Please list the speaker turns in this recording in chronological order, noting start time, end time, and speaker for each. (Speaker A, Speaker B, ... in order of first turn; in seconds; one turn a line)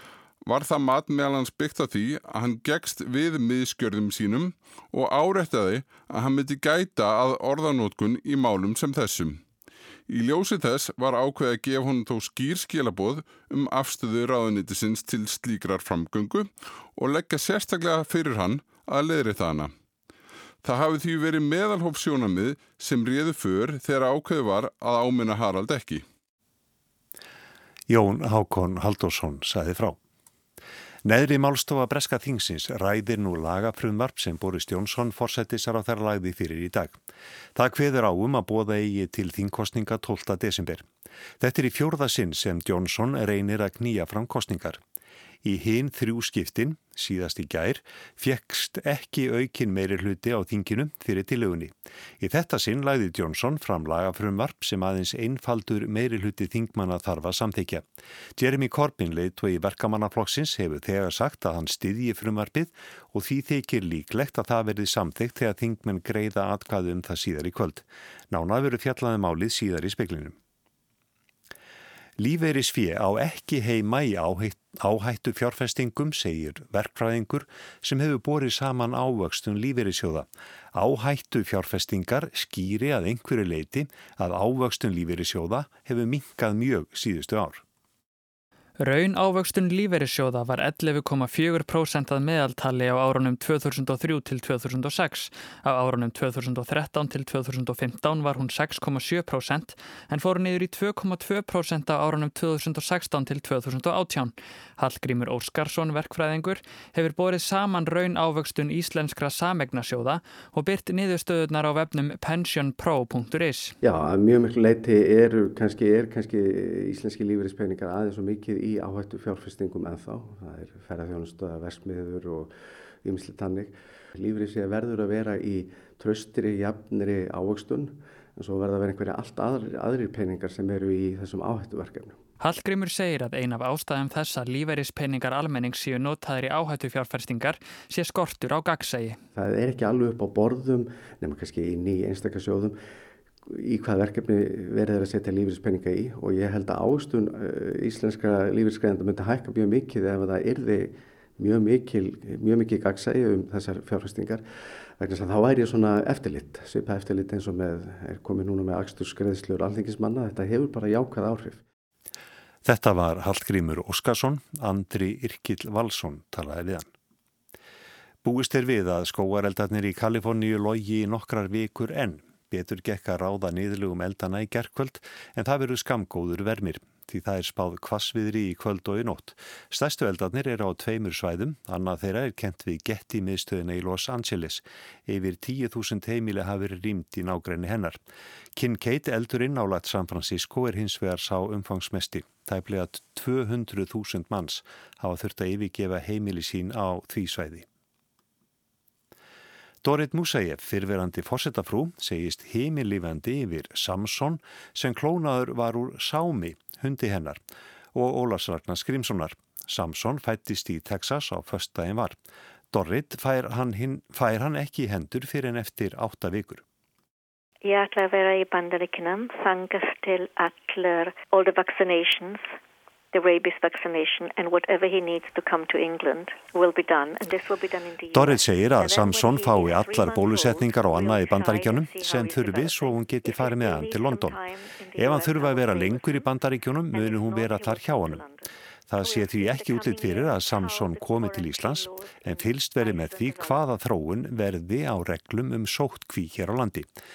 Speaker A: 0.4-9.4
Speaker A: 10.1-19.7
Speaker A: 20.6-26.0
Speaker B: 27.9-30.0
Speaker B: 31.0-37.0
Speaker B: 37.5-40.9
Speaker B: 41.4-44.8
Speaker B: 45.4-57.8
Speaker B: 58.4-70.3
Speaker B: 72.2-87.6
Speaker C: 88.8-113.7
Speaker D: 113.8-132.2
Speaker C: 132.4-139.2
Speaker D: 139.3-142.8
Speaker D: 143.5-154.4
Speaker D: 155.0-161.6
Speaker B: 162.6-166.9
Speaker B: 168.2-188.0
Speaker B: 188.5-197.7
Speaker B: 199.8-207.4
Speaker B: 207.9-212.2
Speaker B: 212.7-216.6
Speaker E: 217.6-222.5
Speaker E: 223.1-236.3
Speaker B: 228.1-234.4
Speaker B: 235.0-238.2
Speaker E: 236.9-238.5
Speaker B: 238.9-246.9
Speaker E: 239.0-243.7